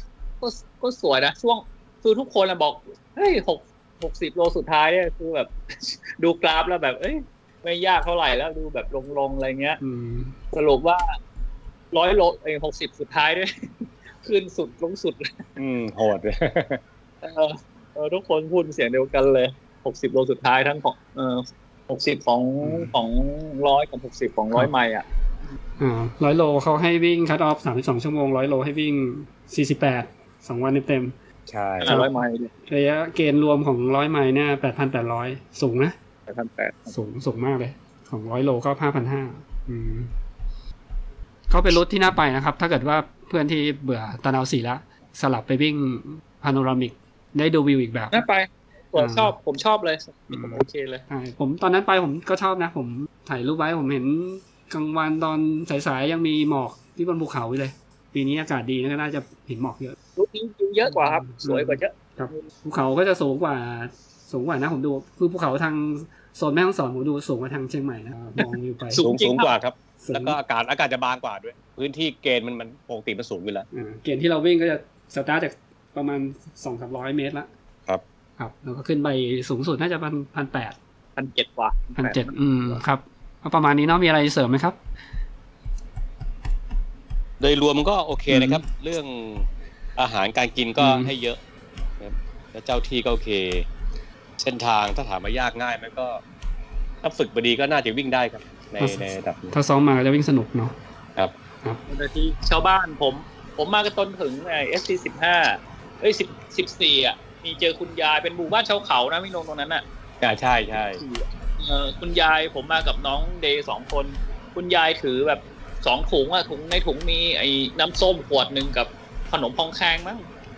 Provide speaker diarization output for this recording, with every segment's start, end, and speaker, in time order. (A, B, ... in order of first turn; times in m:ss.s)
0:00.4-0:09.8 A
0:09.8-0:10.4 B
0:10.5-0:11.2 A
0:11.9-0:15.5 A
0:15.6-0:16.8 C
0:17.2-0:25.1 A
0:22.6-0:22.9 B
0:25.8-0:31.2 B
0:31.5-0:32.0 C
0:31.8-0:32.5 A
0:32.7-0:36.0 B
0:36.3-0:37.0 A
0:36.9-0:40.1 B
0:41.5-0:48.2 B
0:48.1-0:51.0 A
0:49.0-0:49.3 B
0:50.3-1:00.0 B
1:00.2-1:02.5 A
1:00.8-1:09.1 B
1:08.4-1:09.5 A
1:09.0-1:13.7 C
1:10.0-1:10.4 B
1:13.7-1:17.5 B
1:18.4-1:20.8 B
1:21.2-1:22.8 A
1:22.0-1:24.8 B
1:27.4-1:31.4 C
1:28.3-1:28.6 B
1:30.8-1:31.1 B
1:32.0-1:33.7 C
1:34.4-1:36.2 C
1:37.0-1:39.5 C
1:38.8-1:40.8 B
1:41.9-1:49.8 A
1:50.2-1:51.0 C
1:51.0-2:00.3 A